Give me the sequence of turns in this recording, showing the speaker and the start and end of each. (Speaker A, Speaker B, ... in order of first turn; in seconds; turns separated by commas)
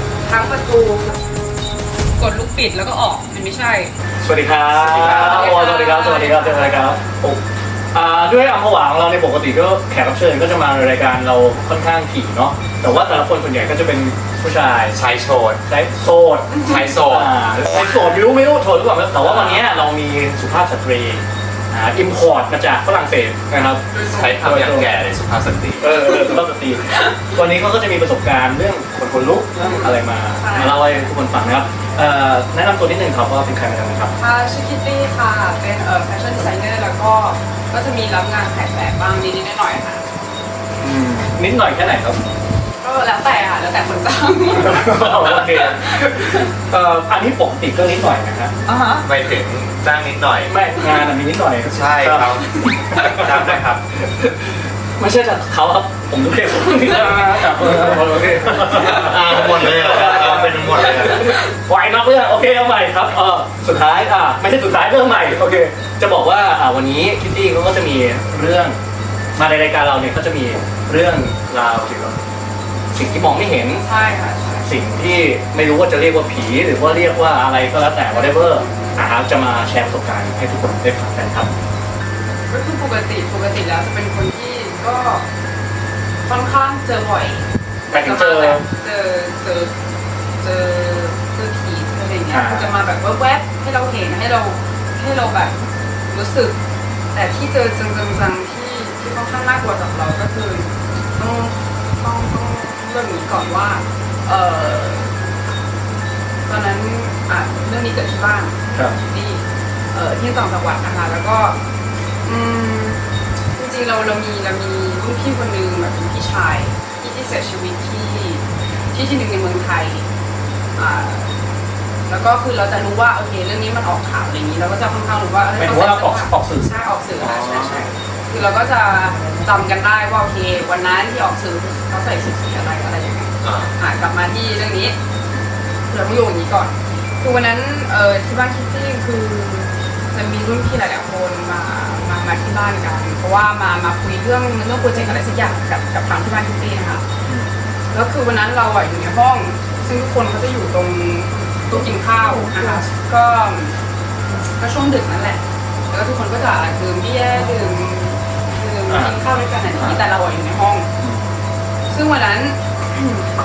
Speaker A: 0.2-1.2, Speaker A: 2.2-3.9, Speaker B: 4.2-7.4, Speaker C: 4.7-5.5, Speaker A: 5.1-7.0, Speaker B: 7.9-15.0, Speaker C: 14.9-15.6, Speaker B: 15.7-24.9, Speaker C: 16.6-17.3, Speaker C: 19.1-19.6, Speaker A: 23.9-24.4, Speaker C: 24.0-26.0, Speaker B: 25.8-34.1, Speaker A: 29.6-31.1, Speaker A: 34.1-40.0, Speaker B: 40.8-42.2, Speaker A: 42.8-46.5, Speaker B: 44.5-48.5, Speaker A: 48.6-49.0, Speaker C: 49.0-50.5, Speaker B: 50.4-68.8, Speaker C: 51.7-53.8, Speaker C: 58.6-61.4, Speaker B: 69.3-72.2, Speaker B: 72.9-73.8, Speaker A: 73.7-74.7, Speaker B: 74.6-81.5, Speaker A: 78.1-78.9, Speaker A: 82.5-85.2, Speaker A: 86.2-89.7, Speaker B: 87.9-88.6, Speaker A: 90.4-95.5, Speaker B: 92.3-92.7, Speaker A: 96.1-96.5, Speaker A: 97.1-105.2, Speaker A: 106.5-109.4, Speaker A: 109.9-111.6, Speaker A: 112.2-113.0, Speaker A: 113.5-120.0, Speaker A: 120.8-121.3, Speaker A: 122.1-134.9, Speaker B: 125.5-126.7, Speaker C: 127.2-127.9, Speaker C: 133.4-133.7, Speaker A: 135.9-147.0, Speaker B: 147.2-147.5, Speaker A: 147.9-153.7, Speaker A: 154.4-160.9, Speaker B: 158.9-159.2, Speaker B: 161.0-161.3, Speaker A: 161.9-163.3